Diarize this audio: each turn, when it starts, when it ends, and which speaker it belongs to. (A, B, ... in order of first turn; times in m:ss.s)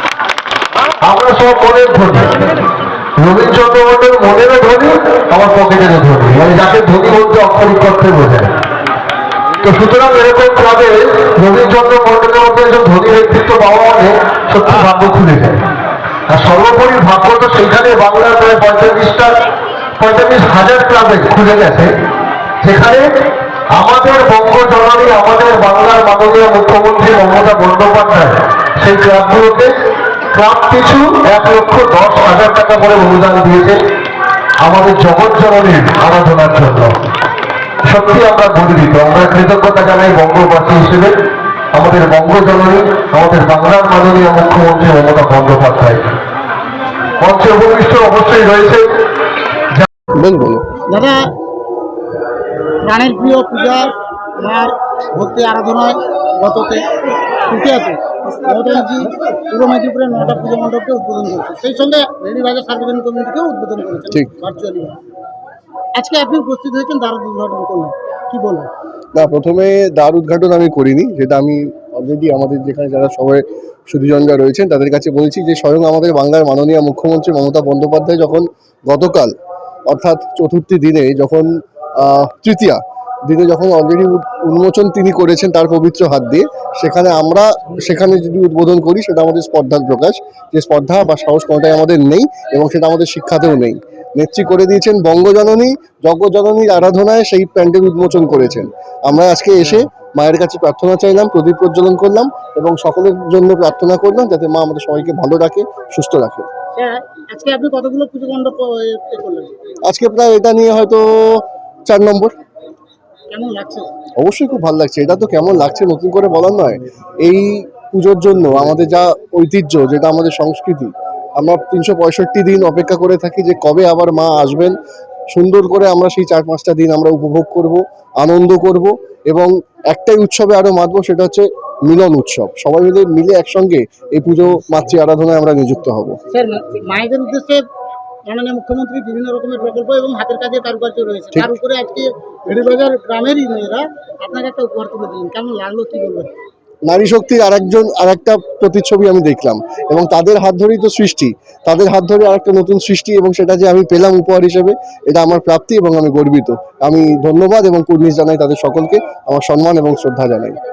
0:01.0-0:02.3 A
0:03.2-0:08.5 A
0:09.6-0:15.6 A
0:16.3-0:19.4 A
0:20.0-0:21.9 A
0:22.6-0:23.1 A
0:23.7-0:29.7 A
0:30.3-0:33.8 A
0:34.6-0:36.9 A
0:37.9-0:41.1 A
0:41.7-0:46.1 A
0:47.2-0:48.9 A
0:50.2-0:50.7 B
0:50.9-0:51.2 C
0:52.8-0:53.9 C
0:54.4-0:56.8 C
0:57.5-1:05.0 C
1:06.0-1:08.7 C
1:09.1-1:19.3 B
1:19.9-1:46.5 B
1:46.8-1:49.5 C
1:49.9-1:52.3 B
1:53.3-1:53.9 C
1:54.2-2:04.8 B
2:05.3-2:16.2 B
2:16.3-2:17.6 C
2:18.3-2:26.3 C
2:26.9-2:40.6 B